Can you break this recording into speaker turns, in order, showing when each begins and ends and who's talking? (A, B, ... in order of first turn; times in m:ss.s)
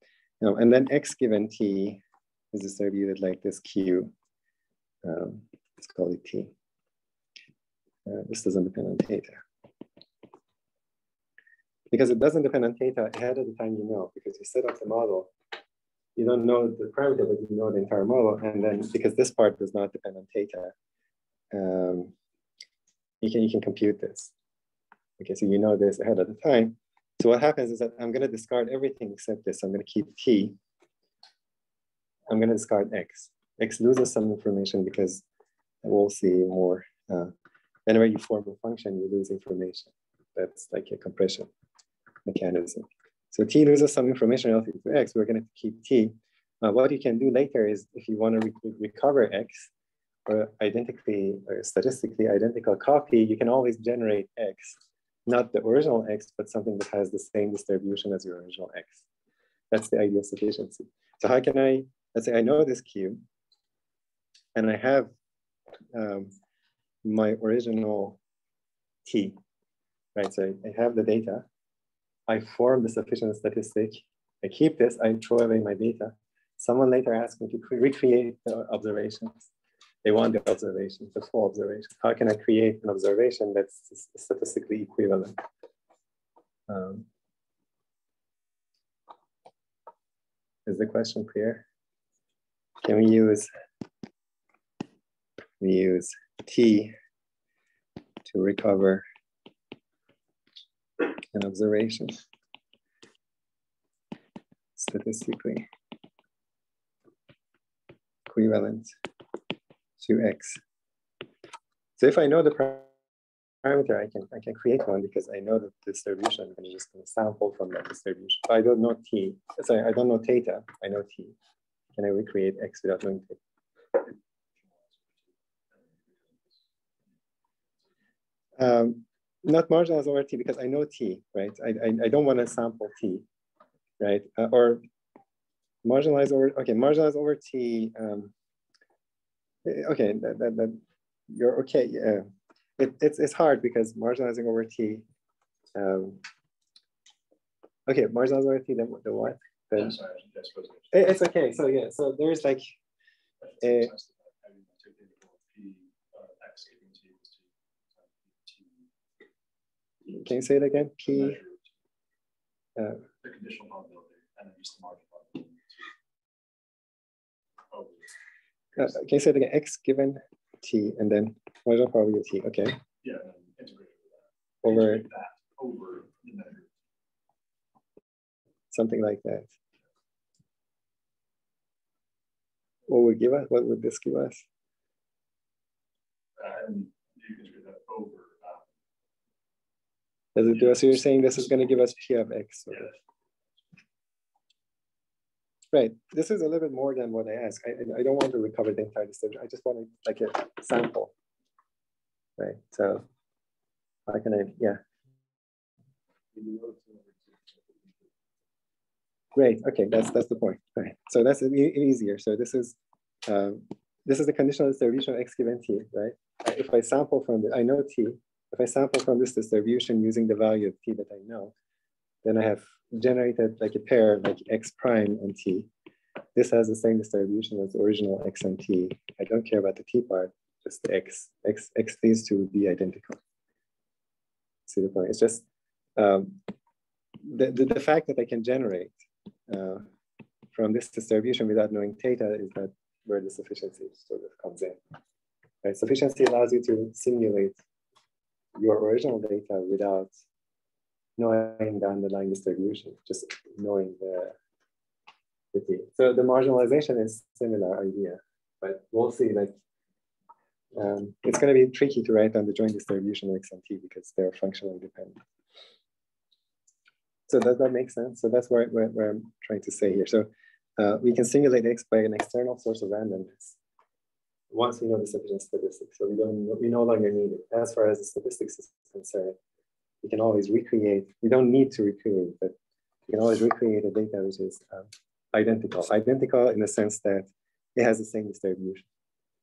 0:00.4-0:02.0 A
0:02.5-0:04.1 A
0:05.0-0:06.5 A
0:08.0-0:09.4 A
0:11.9-0:15.3 A
0:16.2-0:20.7 A
0:21.5-0:22.1 A
0:23.2-0:24.3 A
0:25.2-0:30.6 A
0:32.3-0:35.2 A
0:35.8-0:37.3 A
0:37.9-0:41.5 A
0:42.2-0:49.7 A
0:50.3-0:59.0 A
0:59.7-1:03.2 A
1:04.5-1:05.1 A
1:05.9-1:06.3 A
1:07.0-1:08.2 A
1:09.0-1:09.4 A
1:10.1-1:11.4 A
1:12.3-1:19.5 A
1:20.0-1:25.4 A
1:26.7-1:27.0 A
1:30.6-1:31.6 A
1:32.8-1:33.5 A
1:35.6-1:36.9 A
1:38.2-1:39.0 A
1:41.3-1:42.2 A
1:44.8-1:45.7 A
1:48.3-1:48.9 A
1:50.0-1:50.6 A
1:52.0-1:52.9 A
1:53.6-2:01.3 A
2:02.0-2:03.4 A
2:04.6-2:06.6 B
2:08.6-2:13.2 A
2:14.0-2:14.8 A
2:15.8-2:18.3 A
2:19.6-2:22.3 A
2:22.8-2:25.0 A
2:25.7-2:26.2 A
2:27.9-2:30.0 A
2:29.7-2:31.1 B
2:30.9-2:32.7 A
2:33.4-2:38.9 B
2:33.6-2:33.9 A
2:40.1-2:41.4 A
2:41.0-2:41.7 B
2:42.8-2:43.0 A
2:43.2-2:45.9 B
2:47.7-2:48.1 B
2:48.8-2:52.8 A
2:53.0-2:56.7 B
2:54.6-2:55.0 A
2:58.7-2:59.5 A
3:02.9-3:04.4 A
3:06.4-3:08.7 B
3:10.3-3:12.9 A
3:15.7-3:21.1 A
3:22.4-3:23.0 A
3:24.1-3:24.8 A
3:26.3-3:28.1 B
3:29.3-3:41.5 A
3:42.2-3:45.7 A
3:46.3-3:53.2 A
3:54.7-3:55.4 A
3:56.0-3:56.4 A
3:57.2-3:59.9 A
4:00.5-4:04.8 A
4:05.6-4:07.6 A
4:08.6-4:10.1 A
4:11.2-4:14.4 A
4:15.5-4:19.5 A
4:20.7-4:25.2 A
4:27.3-4:33.6 A
4:34.5-4:39.4 A
4:40.0-4:42.5 A
4:43.1-4:48.9 A